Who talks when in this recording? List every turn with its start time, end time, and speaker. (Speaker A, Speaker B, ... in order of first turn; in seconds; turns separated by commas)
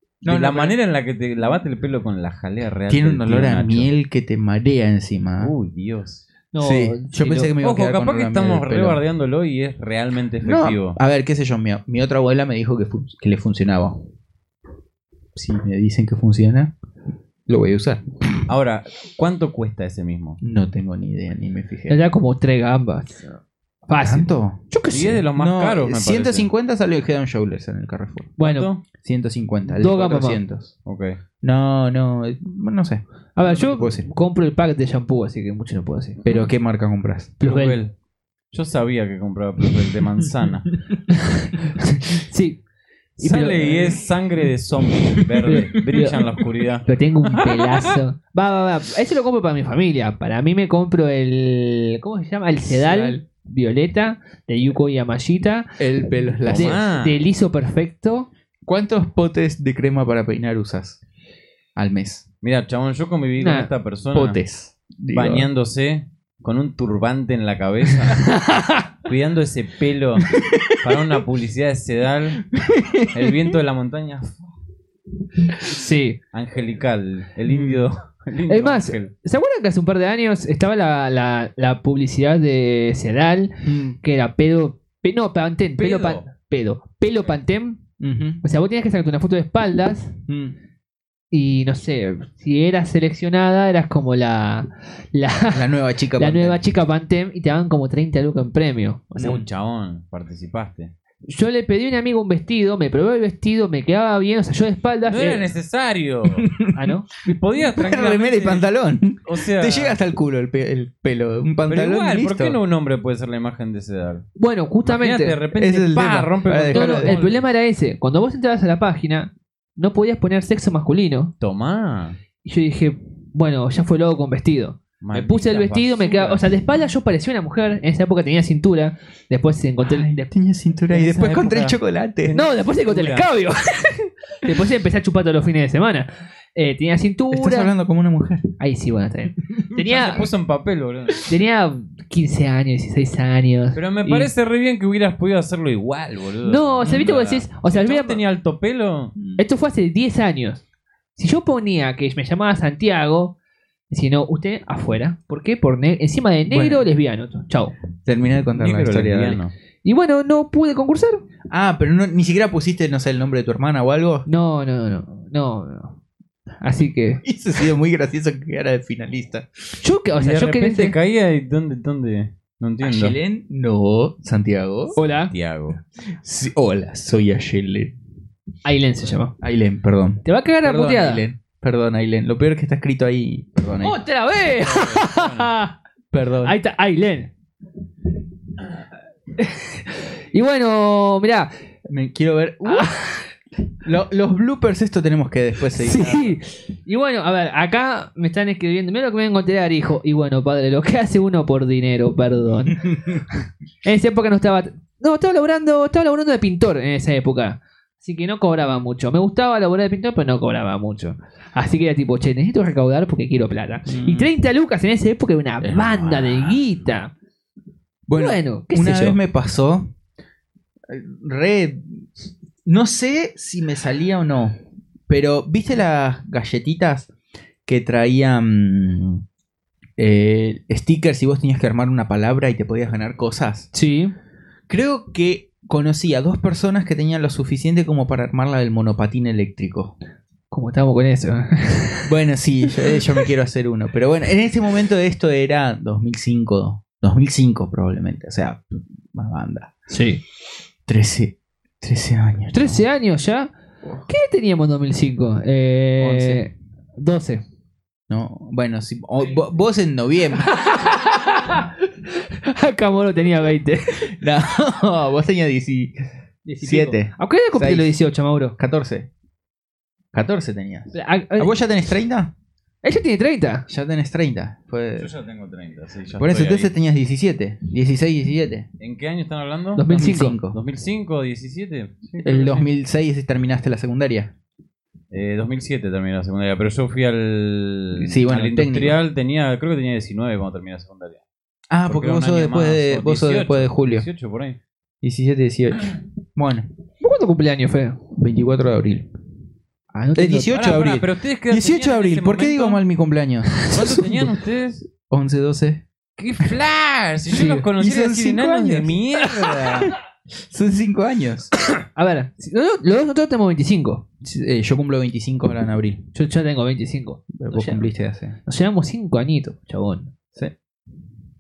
Speaker A: 0.2-3.9, Speaker B: 0.2-0.8, Speaker B: 2.9-5.5, Speaker A: 5.4-6.2, Speaker C: 6.5-7.5, Speaker B: 6.6-9.0, Speaker A: 7.6-11.0, Speaker B: 10.4-14.0, Speaker B: 15.3-16.7, Speaker B: 17.5-18.1, Speaker A: 18.5-20.4, Speaker B: 20.4-22.0, Speaker C: 21.9-25.2, Speaker B: 24.0-24.6, Speaker A: 24.9-26.5, Speaker B: 25.4-28.4, Speaker C: 28.4-28.7, Speaker A: 28.4-28.8, Speaker B: 29.0-30.7, Speaker C: 29.7-30.4, Speaker A: 30.9-31.2, Speaker B: 31.4-34.1, Speaker C: 33.4-36.2, Speaker A: 36.2-36.5, Speaker B: 36.2-37.3, Speaker C: 37.4-37.8, Speaker A: 37.4-37.9, Speaker A: 38.5-40.7, Speaker C: 41.1-42.6, Speaker C: 43.2-44.0, Speaker A: 43.2-48.0, Speaker C: 45.5-46.2, Speaker C: 46.9-55.8, Speaker B: 52.7-53.2, Speaker B: 55.8-56.8, Speaker A: 56.5-57.2, Speaker C: 56.5-58.3, Speaker B: 58.7-61.0, Speaker B: 61.8-62.2, Speaker A: 62.4-64.4, Speaker C: 63.4-63.7, Speaker B: 64.1-65.5, Speaker A: 65.1-68.3, Speaker C: 68.2-68.8, Speaker A: 69.0-72.4, Speaker B: 70.4-70.7, Speaker B: 72.7-73.3, Speaker A: 73.1-74.5, Speaker C: 75.6-76.2, Speaker A: 76.3-79.1, Speaker B: 77.5-77.8, Speaker C: 78.5-87.8, Speaker B: 83.6-84.0, Speaker A: 85.8-86.2, Speaker B: 88.0-88.4, Speaker C: 88.4-90.2, Speaker B: 90.3-90.6, Speaker C: 91.3-99.4, Speaker B: 95.5-96.6, Speaker A: 99.2-100.9, Speaker C: 101.3-105.5, Speaker A: 105.0-106.5, Speaker B: 106.4-106.7, Speaker C: 106.7-107.1, Speaker A: 107.2-108.7, Speaker B: 107.8-112.6, Speaker A: 109.2-110.0, Speaker A: 111.7-114.2, Speaker C: 114.4-115.4, Speaker A: 114.8-117.5, Speaker B: 115.6-117.2, Speaker C: 116.7-121.3, Speaker A: 121.4-122.2, Speaker C: 122.4-130.3, Speaker A: 125.0-126.4, Speaker B: 129.8-132.4, Speaker C: 130.9-131.3, Speaker A: 131.0-133.3, Speaker C: 132.3-137.7, Speaker B: 137.3-138.5, Speaker C: 138.6-140.3, Speaker A: 139.8-141.3, Speaker C: 141.2-144.3, Speaker A: 143.7-149.1, Speaker C: 146.4-148.2, Speaker B: 149.2-149.4, Speaker C: 149.4-150.6, Speaker C: 151.2-153.3, Speaker C: 153.9-157.7, Speaker B: 156.5-156.8, Speaker B: 158.1-159.4, Speaker A: 158.6-159.5, Speaker C: 159.8-161.2, Speaker B: 161.5-164.2, Speaker C: 164.3-166.0, Speaker C: 166.6-167.2, Speaker B: 167.2-169.5, Speaker C: 169.8-171.0, Speaker A: 170.2-173.2, Speaker B: 172.8-175.0, Speaker C: 175.0-175.3, Speaker A: 175.0-175.8, Speaker B: 176.2-177.9, Speaker C: 178.6-179.4, Speaker B: 179.4-184.0, Speaker C: 180.2-181.2, Speaker C: 183.8-185.7, Speaker A: 184.6-185.5, Speaker B: 186.1-186.6, Speaker C: 186.4-187.3, Speaker C: 189.4-191.5, Speaker B: 191.9-192.9, Speaker C: 192.6-193.3, Speaker B: 193.8-196.4, Speaker C: 195.7-202.9, Speaker B: 202.9-203.2, Speaker C: 203.8-217.1, Speaker B: 213.9-214.3, Speaker B: 215.6-216.6, Speaker B: 218.1-219.9, Speaker C: 218.1-219.2, Speaker B: 220.9-222.1, Speaker B: 222.7-224.6, Speaker B: 225.1-227.1, Speaker B: 227.7-229.2, Speaker B: 230.0-233.7, Speaker C: 233.7-234.1, Speaker B: 234.7-239.9, Speaker C: 240.5-242.1, Speaker B: 242.1-249.7, Speaker C: 249.9-250.2, Speaker B: 250.9-252.8, Speaker C: 252.5-253.5, Speaker C: 254.1-257.4, Speaker B: 256.0-256.5, Speaker B: 258.1-260.5, Speaker C: 260.5-264.1, Speaker B: 264.1-266.1, Speaker C: 266.4-268.6, Speaker B: 266.6-267.9, Speaker B: 268.6-269.1, Speaker B: 270.1-272.3, Speaker C: 270.9-271.5, Speaker C: 272.8-273.7, Speaker B: 273.7-275.1, Speaker A: 275.0-276.7, Speaker B: 276.2-278.7, Speaker A: 278.8-279.9, Speaker C: 279.8-280.4, Speaker B: 279.9-280.6, Speaker A: 280.5-282.7, Speaker B: 282.2-284.3, Speaker A: 285.1-291.2, Speaker B: 287.9-289.0, Speaker B: 291.7-294.1, Speaker A: 291.9-294.6, Speaker B: 295.0-296.7, Speaker C: 297.0-298.0, Speaker B: 298.1-299.1, Speaker C: 299.9-300.5, Speaker B: 300.2-304.1, Speaker A: 300.5-302.8, Speaker C: 303.5-304.0, Speaker A: 303.7-304.9, Speaker B: 305.1-305.8, Speaker A: 306.2-309.9, Speaker C: 307.3-307.7, Speaker B: 307.8-309.0, Speaker C: 309.2-309.9, Speaker B: 309.9-311.5, Speaker C: 311.8-314.0, Speaker B: 314.2-316.0, Speaker C: 316.1-317.9, Speaker B: 317.3-318.4, Speaker C: 318.5-320.1